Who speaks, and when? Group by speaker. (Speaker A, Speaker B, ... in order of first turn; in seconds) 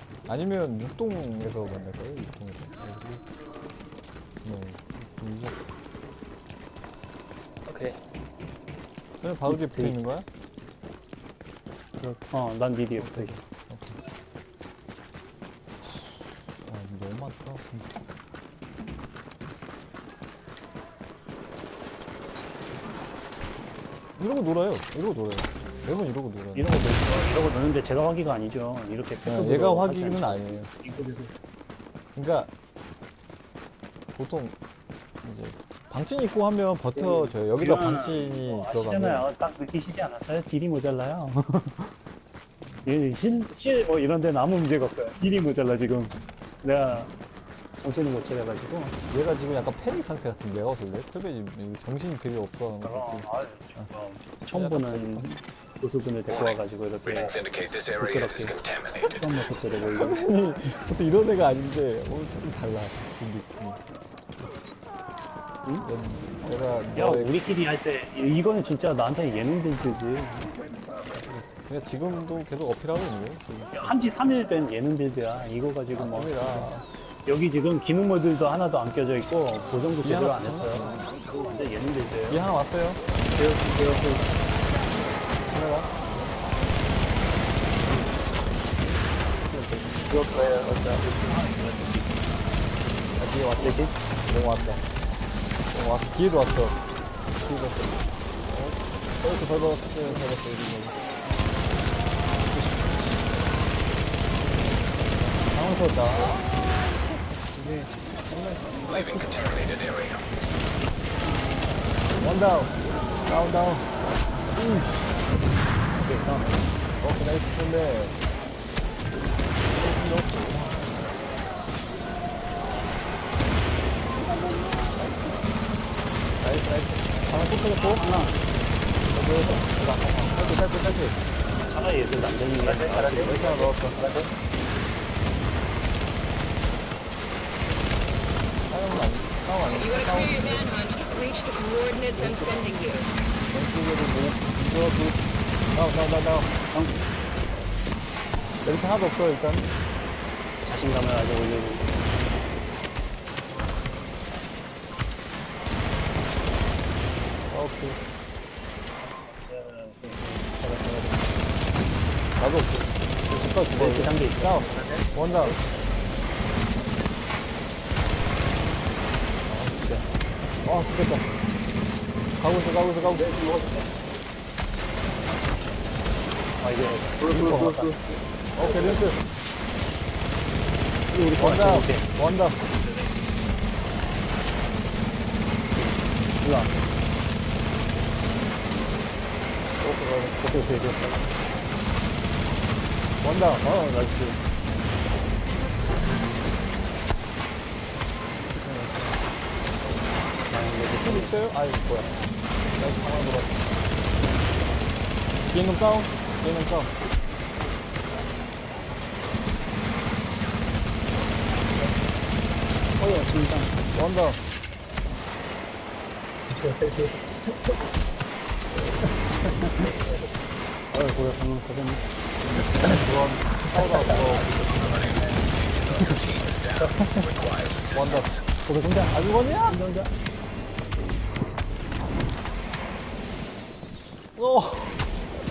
Speaker A: 0.3-3.2, 4.4-5.6, 9.2-10.3, 13.0-14.0, 15.8-17.9, 24.2-27.0, 29.2-30.7, 32.1-32.5, 34.1-34.6, 35.2-39.3, 49.1-53.9, 54.5-55.3, 59.9-63.8, 65.8-67.4, 71.0-73.9, 75.9-76.9, 80.0-81.1, 82.3-83.0, 85.5-86.3, 89.5-90.0, 93.2-94.8, 95.7-96.8, 97.3-101.0, 105.5-106.9, 112.2-115.2, 117.0-118.2, 119.6-121.0, 126.4-128.1, 129.1-131.2, 132.9-134.1, 138.7-140.8, 142.2-142.8, 143.5-146.5, 148.6-149.7, 157.5-158.0, 162.4-165.6, 169.5-170.1, 170.6-171.3, 172.4-173.4, 177.3-177.9, 178.6-179.2, 181.4-182.7, 189.8-191.0, 193.2-193.7, 198.5-199.2, 200.9-203.6, 205.5-206.9, 213.9-214.4, 222.7-224.7, 227.9-228.3, 229.1-229.8, 234.3-235.0
Speaker B: 7.7-8.0, 83.3-84.3, 90.0-91.5, 93.6-93.9, 132.6-134.3, 164.6-165.2, 177.2-179.0, 216.5-217.8, 218.8-219.1, 219.8-220.3, 223.9-224.7
Speaker C: 9.4-10.2, 12.0-13.4, 26.6-31.3, 36.9-41.9, 42.9-47.1, 47.8-49.0, 52.8-58.5, 59.1-60.2, 66.9-70.8, 73.7-82.4, 91.0-92.3, 102.2-103.1, 105.5-106.4, 107.5-109.3, 116.0-116.7, 127.6-128.4, 131.7-134.2, 150.6-152.1, 159.0-161.4, 163.7-165.6, 173.1-173.9, 176.6-177.8, 178.6-178.9, 181.1-183.2, 185.8-186.7, 190.4-191.3, 193.5-194.4, 200.5-201.4, 213.0-213.8, 219.6-219.9, 220.9-222.1, 223.7-225.4, 225.9-226.2, 228.7-230.1
Speaker D: 56.3-59.1, 108.9-110.3, 224.8-228.4
Speaker E: 139.7-143.1